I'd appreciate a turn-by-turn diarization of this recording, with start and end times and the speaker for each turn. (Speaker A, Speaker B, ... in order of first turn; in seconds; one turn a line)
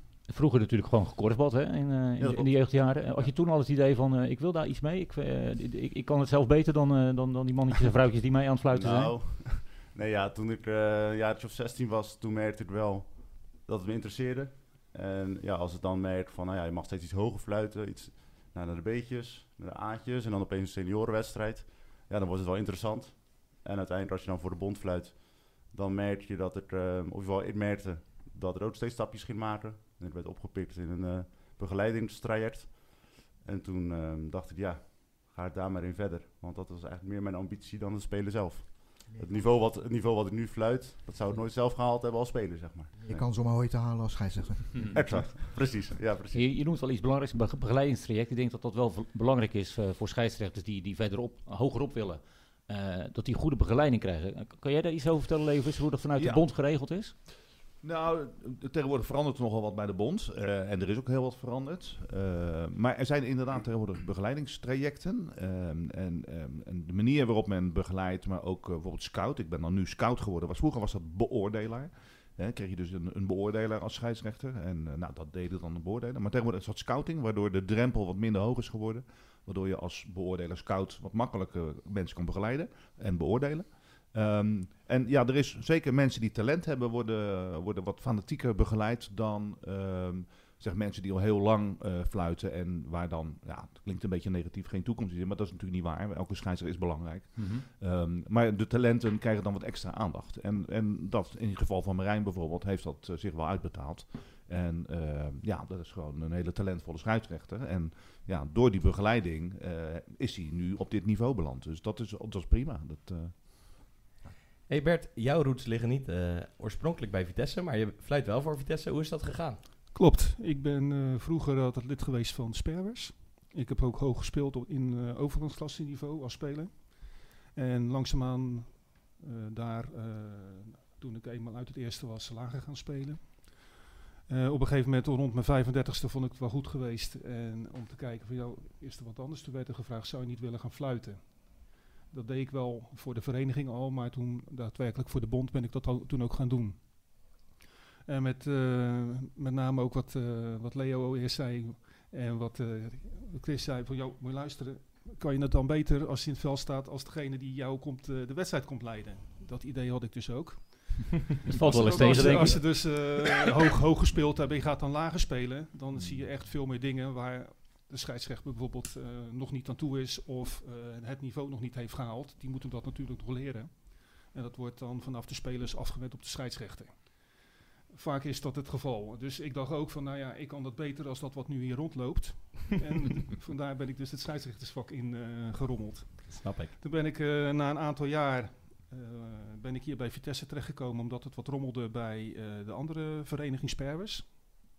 Speaker A: 0.3-9.1
Speaker B: 2.2-3.3
Speaker B: 8.7-43.3
Speaker C: 39.1-39.6
Speaker C: 43.0-45.3
Speaker B: 44.9-46.5
Speaker A: 46.3-57.1
Speaker D: 56.1-56.5
Speaker D: 57.8-113.8
Speaker A: 97.3-97.7
Speaker E: 114.7-119.6
Speaker F: 119.9-147.4
Speaker F: 148.1-194.3
Speaker A: 161.5-163.0
Speaker E: 161.7-162.9
Speaker E: 186.3-186.8